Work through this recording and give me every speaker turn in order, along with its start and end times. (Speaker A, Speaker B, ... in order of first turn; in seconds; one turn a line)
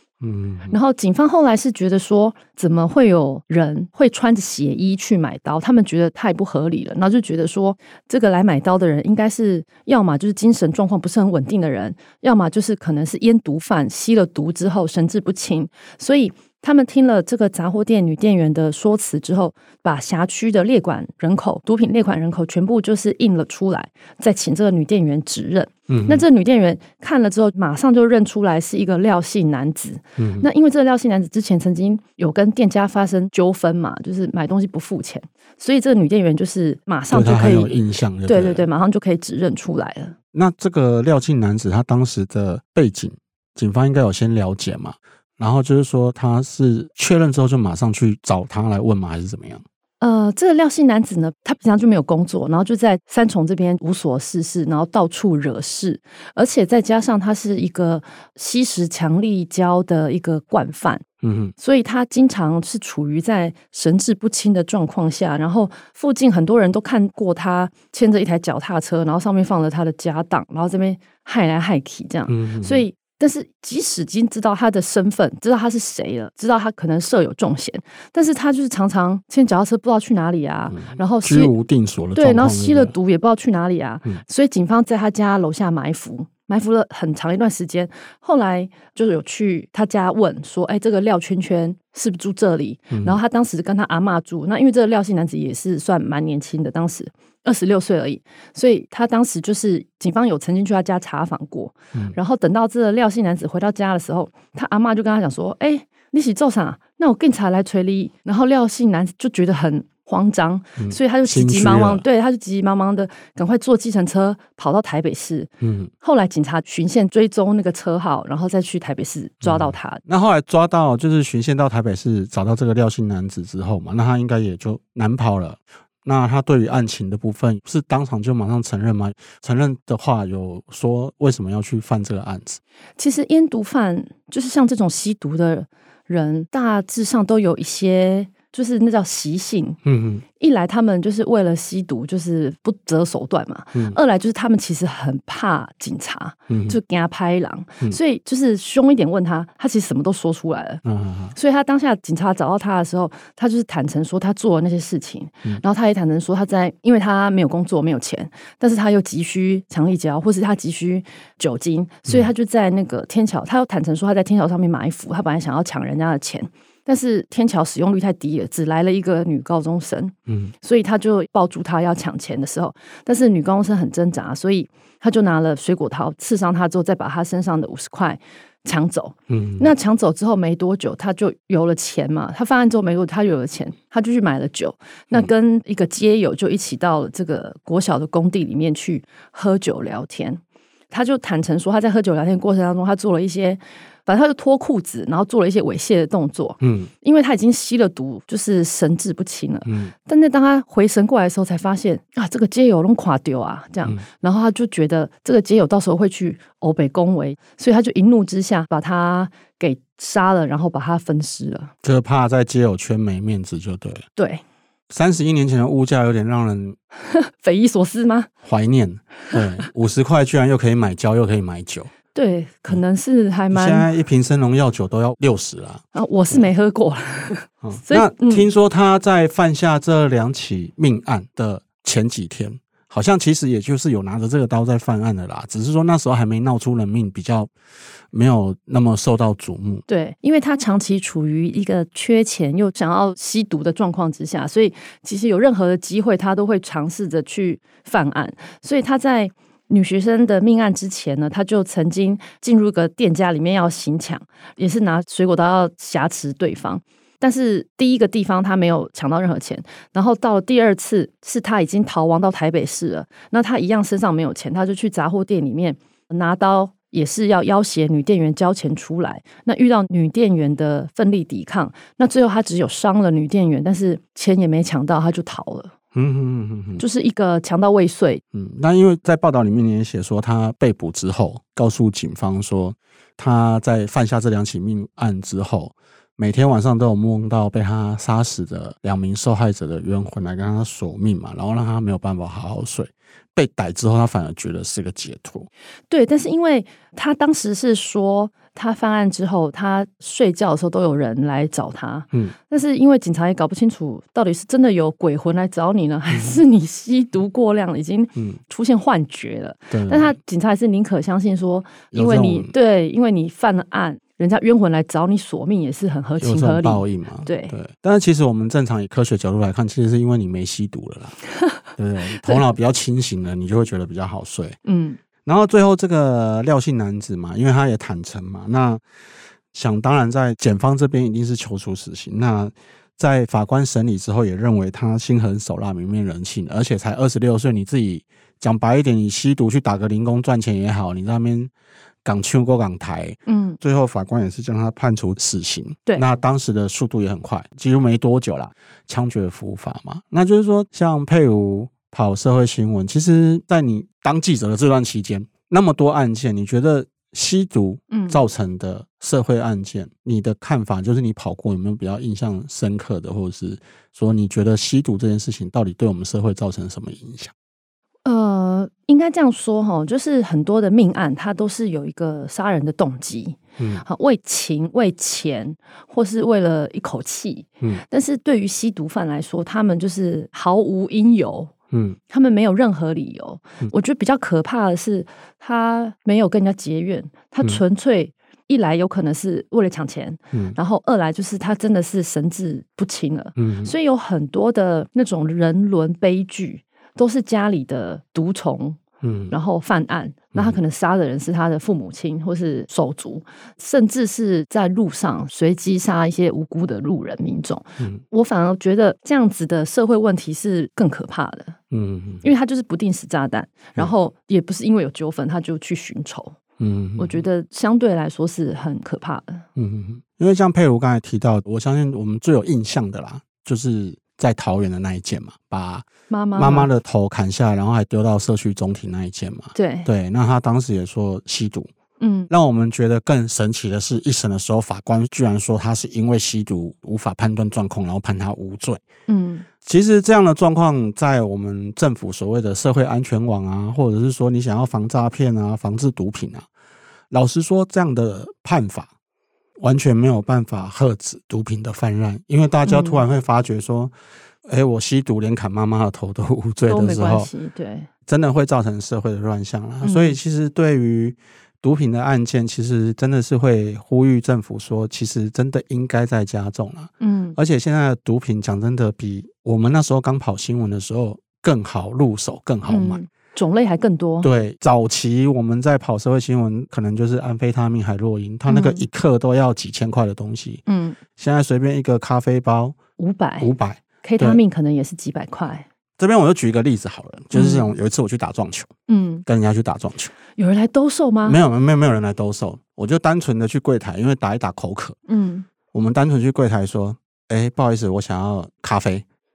Speaker A: 0.2-0.8
Speaker B: 0.7-40.1
Speaker A: 25.9-26.2
Speaker A: 30.2-30.5
Speaker A: 37.1-38.6
Speaker A: 40.3-49.6
Speaker B: 50.0-61.0
Speaker A: 61.2-61.5
Speaker B: 61.6-81.5
Speaker A: 72.3-72.8
Speaker A: 80.7-82.9
Speaker B: 82.1-115.5
Speaker A: 92.9-93.2
Speaker A: 110.8-112.0
Speaker A: 115.6-115.9
Speaker B: 116.0-120.0
Speaker A: 119.4-132.6
Speaker B: 133.0-139.8
Speaker A: 139.8-140.2
Speaker B: 140.4-150.8
Speaker A: 146.5-146.8
Speaker A: 150.8-151.3
Speaker B: 151.3-211.7
Speaker A: 170.3-170.5
Speaker A: 179.3-179.7
Speaker A: 196.6-196.9
Speaker A: 199.7-199.9
Speaker A: 211.8-214.1
Speaker B: 214.2-214.4
Speaker A: 214.9-216.8
Speaker B: 217.1-218.3
Speaker A: 218.4-221.9
Speaker B: 222.1-223.9
Speaker A: 223.5-226.4
Speaker B: 225.9-228.5
Speaker A: 227.6-237.5
Speaker A: 238.1-239.8
Speaker B: 239.9-275.7
Speaker A: 275.9-276.8
Speaker B: 276.8-278.2
Speaker A: 278.3-295.5
Speaker B: 295.9-317.6
Speaker A: 306.1-306.4
Speaker A: 309.7-310.1
Speaker A: 311.9-312.5
Speaker A: 316.2-321.2
Speaker A: 321.7-324.6
Speaker B: 324.6-325.0
Speaker A: 325.2-328.8
Speaker A: 329.5-341.5
Speaker A: 342.0-367.3
Speaker B: 343.3-343.6
Speaker B: 357.9-358.2
Speaker B: 368.0-381.5
Speaker A: 373.6-373.8
Speaker A: 381.7-382.0
Speaker B: 382.1-398.8
Speaker A: 393.4-393.7
Speaker A: 399.0-399.3
Speaker B: 399.3-411.6
Speaker A: 411.7-412.3
Speaker B: 412.2-416.4
Speaker A: 416.6-417.2
Speaker B: 417.0-419.4
Speaker A: 419.6-431.7
Speaker B: 426.1-426.7
Speaker B: 429.5-429.9
Speaker B: 432.0-432.3
Speaker A: 432.3-438.8
Speaker B: 439.1-439.4
Speaker A: 439.6-446.5
Speaker A: 447.1-448.9
Speaker A: 449.6-453.9
Speaker B: 452.6-453.0
Speaker A: 454.4-457.3
Speaker B: 456.7-457.9
Speaker A: 458.1-473.0
Speaker B: 459.8-460.2
Speaker B: 467.0-467.4
Speaker B: 472.7-474.3
Speaker A: 474.2-480.6
Speaker B: 478.5-478.9
Speaker B: 480.7-481.0
Speaker A: 481.1-482.8
Speaker B: 483.0-483.5
Speaker A: 483.4-484.4
Speaker B: 484.0-485.6
Speaker A: 486.0-488.7
Speaker B: 487.3-487.7
Speaker B: 488.9-489.2
Speaker A: 489.2-490.1
Speaker B: 490.4-491.4
Speaker A: 491.2-494.9
Speaker B: 495.1-495.5
Speaker A: 495.7-499.0